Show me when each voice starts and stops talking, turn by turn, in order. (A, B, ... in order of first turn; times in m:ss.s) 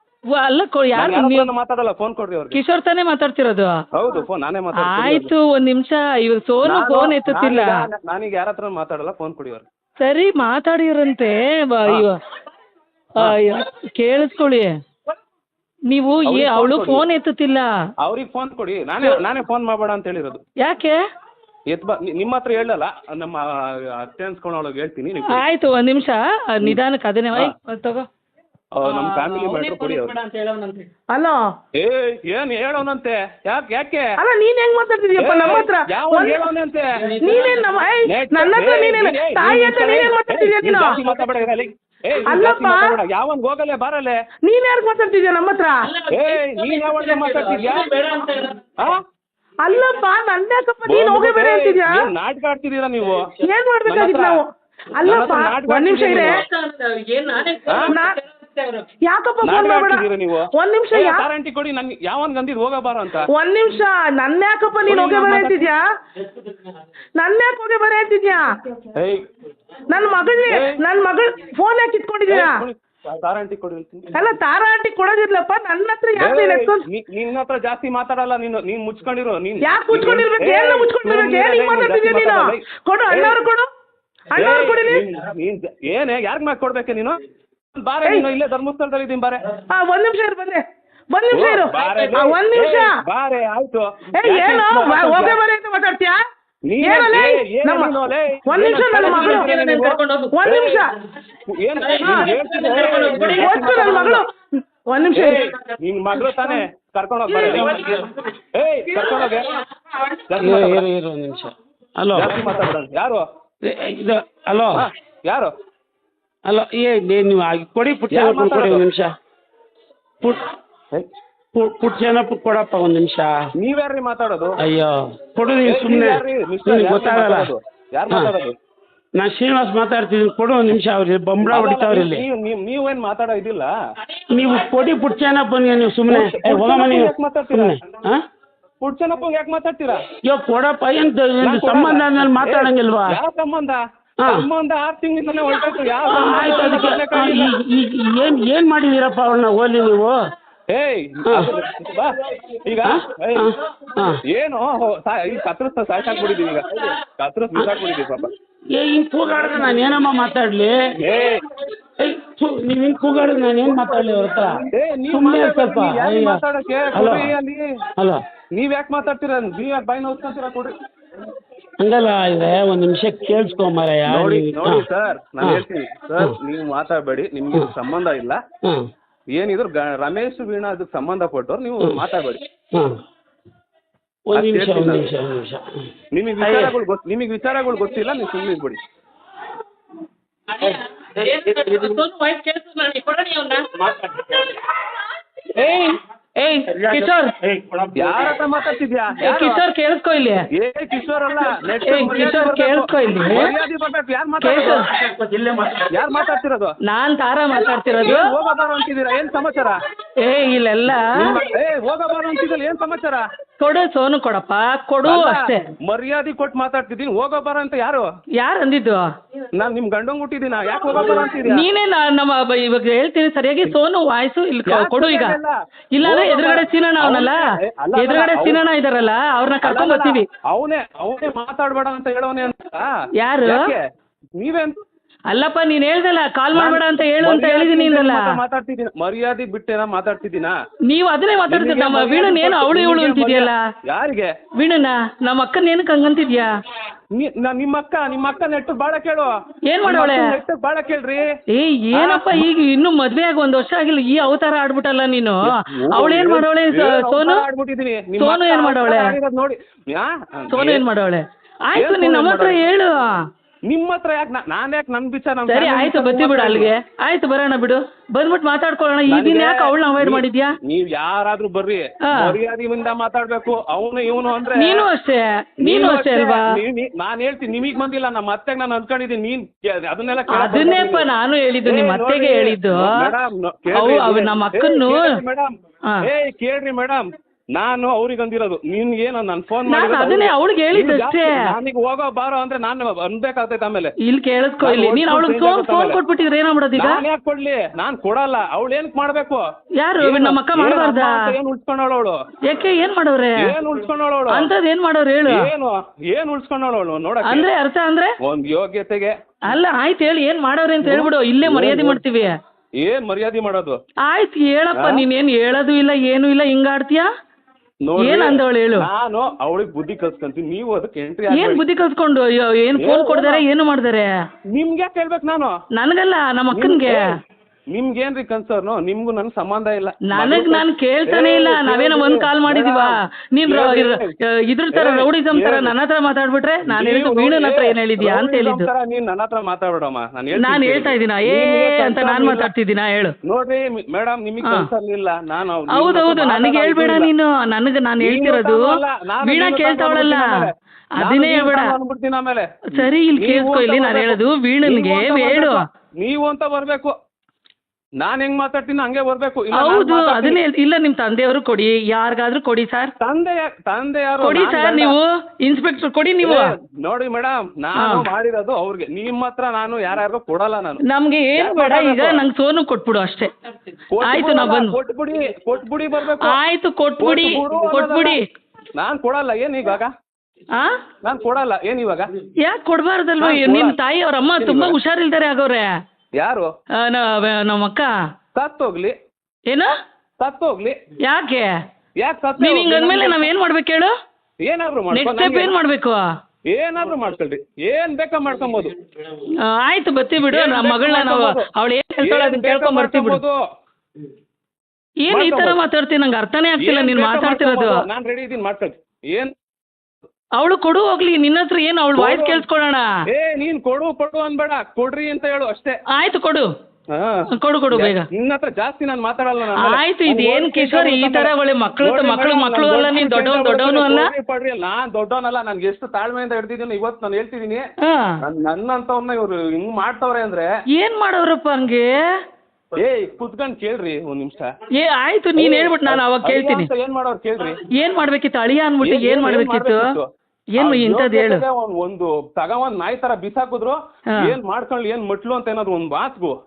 0:00.3-0:01.5 A
0:01.0-0:02.6 B
0:02.5-0:03.8 A
0:04.0-0:05.3 B
0:04.8-0:07.9 A
0:06.6-0:09.7 B
0:10.0-0:12.2 A
0:13.2-0:14.7 A
0:15.9-0:17.7 A
0:16.3-0:17.1 B
0:18.0-0:20.4 B
0:20.6-0:21.0 A
0:21.7-0:25.4 B
0:25.3-0:28.1 A
0:28.7-0:30.2 B
0:28.8-0:30.9 A
0:31.1-0:31.4 C
0:31.8-0:34.1 B
0:34.2-0:36.4 C
0:35.2-0:36.9 B
0:37.0-0:37.7 A
0:37.2-0:41.0 C
0:38.1-0:44.2 B
0:42.2-0:43.0 C
0:44.4-0:45.8 C
0:45.9-0:48.7 A
0:46.1-0:47.9 B
0:49.6-0:52.1 C
0:50.8-0:53.2 B
0:53.5-0:54.4 C
0:53.8-0:54.4 B
0:55.0-0:56.4 C
0:55.0-0:56.4 B
0:56.4-0:58.9 A
0:57.7-0:58.0 B
0:57.9-0:58.2 C
0:59.1-1:01.3 C
0:59.4-1:03.3 B
1:03.3-1:05.8 C
1:04.9-1:05.7 B
1:07.2-1:08.5 C
1:09.0-1:09.2 B
1:09.9-1:12.6 C
1:10.5-1:10.8 B
1:12.3-1:14.1 B
1:14.2-1:16.8 C
1:16.1-1:23.4 B
1:19.7-1:23.7 C
1:24.3-1:25.0 C
1:24.4-1:27.2 B
1:27.8-1:29.5 B
1:29.7-1:30.6 C
1:31.1-1:32.9 C
1:31.3-1:35.4 B
1:34.2-1:36.2 C
1:36.7-1:40.9 B
1:36.8-1:37.9 C
1:38.5-1:41.0 C
1:39.0-1:40.4 A
1:41.5-1:44.2 B
1:41.8-1:44.1 A
1:42.0-1:44.3 C
1:44.9-1:45.5 C
1:45.1-1:49.6 B
1:46.2-1:46.6 C
1:47.3-1:48.0 C
1:49.0-1:49.3 C
1:50.3-1:50.9 B
1:50.4-1:52.6 D
1:52.1-1:53.2 B
1:53.7-1:54.9 D
1:54.8-1:55.5 B
1:56.5-1:59.1 D
1:58.1-1:58.9 B
2:00.2-2:00.5 D
2:01.5-2:03.5 D
2:03.6-2:04.6 B
2:04.6-2:07.5 D
2:05.6-2:08.6 B
2:08.1-2:08.3 D
2:09.2-2:12.3 D
2:11.4-2:13.7 B
2:14.3-2:18.2 D
2:16.1-2:18.1 B
2:18.8-2:20.1 B
2:20.2-2:23.2 D
2:21.4-2:27.6 B
2:26.1-2:30.2 D
2:30.7-2:33.5 B
2:31.2-2:31.5 D
2:32.9-2:34.2 D
2:34.3-2:38.3 B
2:38.8-2:40.8 D
2:41.0-2:41.5 B
2:42.0-2:47.3 D
2:43.6-2:47.7 B
2:48.5-2:50.7 B
2:51.8-2:54.9 D
2:54.0-2:58.4 B
2:59.3-3:02.4 B
3:04.3-3:05.9 D
3:04.3-3:05.2 B
3:06.1-3:08.8 B
3:06.4-3:06.7 D
3:10.5-3:13.7 A
3:15.6-3:17.3 A
3:16.7-3:18.2 D
3:17.9-3:19.6 B
3:19.2-3:20.4 A
3:20.6-3:24.8 B
3:21.8-3:23.5 A
3:24.4-3:24.9 A
3:25.3-3:25.8 D
3:25.9-3:26.7 B
3:26.9-3:28.3 A
3:28.0-3:29.8 B
3:30.2-3:31.3 A
3:31.2-3:33.2 B
3:33.6-3:35.6 A
3:35.0-3:38.1 B
3:38.4-3:39.1 A
3:39.5-3:41.7 B
3:41.2-3:45.4 A
3:44.7-3:48.6 B
3:46.0-3:50.3 A
3:49.6-3:52.9 B
3:53.2-3:53.7 A
3:53.4-3:53.8 B
3:54.4-3:54.8 B
3:55.3-3:58.4 A
3:56.5-4:00.5 B
4:00.9-4:03.6 A
4:01.5-4:04.3 B
4:04.6-4:06.5 A
4:07.2-4:09.3 B
4:09.7-4:10.4 A
4:09.8-4:11.3 B
4:11.6-4:17.4 A
4:11.9-4:12.5 B
4:15.7-4:20.9 B
4:18.2-4:19.2 A
4:20.5-4:23.2 A
4:21.8-4:22.6 B
4:23.7-4:26.7 B
4:25.5-4:30.6 A
4:29.1-4:34.9 B
4:32.1-4:32.4 A
4:34.5-4:36.5 A
4:35.6-4:41.1 B
4:40.3-4:43.1 A
4:41.6-4:45.5 B
4:43.7-4:45.2 A
4:46.0-4:53.9 B
4:49.7-4:51.5 A
4:54.1-4:57.0 A
4:54.6-4:56.0 B
4:56.7-4:59.4 B
4:59.8-5:01.2 A
5:00.0-5:02.2 B
5:02.5-5:03.5 A
5:03.4-5:04.5 B
5:04.3-5:05.5 A
5:05.3-5:07.5 B
5:07.2-5:08.1 A
5:08.2-5:09.1 B
5:09.5-5:12.4 A
5:10.8-5:12.0 B
5:12.8-5:13.8 B
5:14.1-5:17.1 A
5:14.7-5:15.0 B
5:17.8-5:21.6 B
5:18.0-5:18.9 A
5:21.3-5:24.1 A
5:22.8-5:23.4 B
5:24.5-5:25.6 B
5:25.8-5:27.1 A
5:26.5-5:27.1 B
5:27.7-5:32.9 B
5:30.0-5:38.7 A
5:33.5-5:34.1 B
5:34.7-5:35.7 B
5:36.7-5:42.5 B
5:40.3-5:43.1 A
5:43.3-5:47.1 B
5:44.4-5:44.7 A
5:45.7-5:51.7 A
5:48.0-5:50.5 B
5:51.0-5:56.9 B
5:52.7-5:55.6 A
5:58.0-6:00.4 B
5:59.5-6:02.9 A
6:03.0-6:05.0 B
6:04.2-6:06.5 A
6:06.2-6:10.8 B
6:07.8-6:08.1 A
6:10.9-6:13.3 A
6:11.4-6:12.2 B
6:13.9-6:16.4 B
6:14.0-6:14.8 A
6:16.2-6:18.2 A
6:17.0-6:18.2 B
6:18.8-6:19.9 B
6:21.0-6:22.1 B
6:22.4-6:25.7 A
6:23.2-6:23.8 B
6:24.4-6:24.8 B
6:26.2-6:26.5 B
6:26.8-6:27.9 A
6:28.4-6:29.0 B
6:30.2-6:30.8 B
6:31.0-6:31.5 A
6:32.0-6:33.3 B
6:32.4-6:33.9 A
6:34.4-6:35.5 B
6:34.9-6:36.0 A
6:36.5-6:38.8 B
6:39.3-6:43.2 A
6:40.2-6:41.4 B
6:42.0-6:43.4 B
6:45.0-6:47.8 A
6:45.1-6:45.6 B
6:46.6-6:49.3 B
6:50.4-6:52.8 A
6:52.0-6:52.4 B
6:53.1-6:55.8 B
6:55.9-6:56.5 A
6:56.9-7:07.6 B
6:57.3-6:58.0 A
6:59.5-7:04.1 A
7:08.2-7:10.5 B
7:10.8-7:11.9 A
7:12.8-7:14.5 B
7:14.8-7:16.7 A
7:15.4-7:17.6 B
7:17.8-7:20.0 A
7:18.8-7:20.1 B
7:20.6-7:21.4 A
7:20.6-7:26.4 B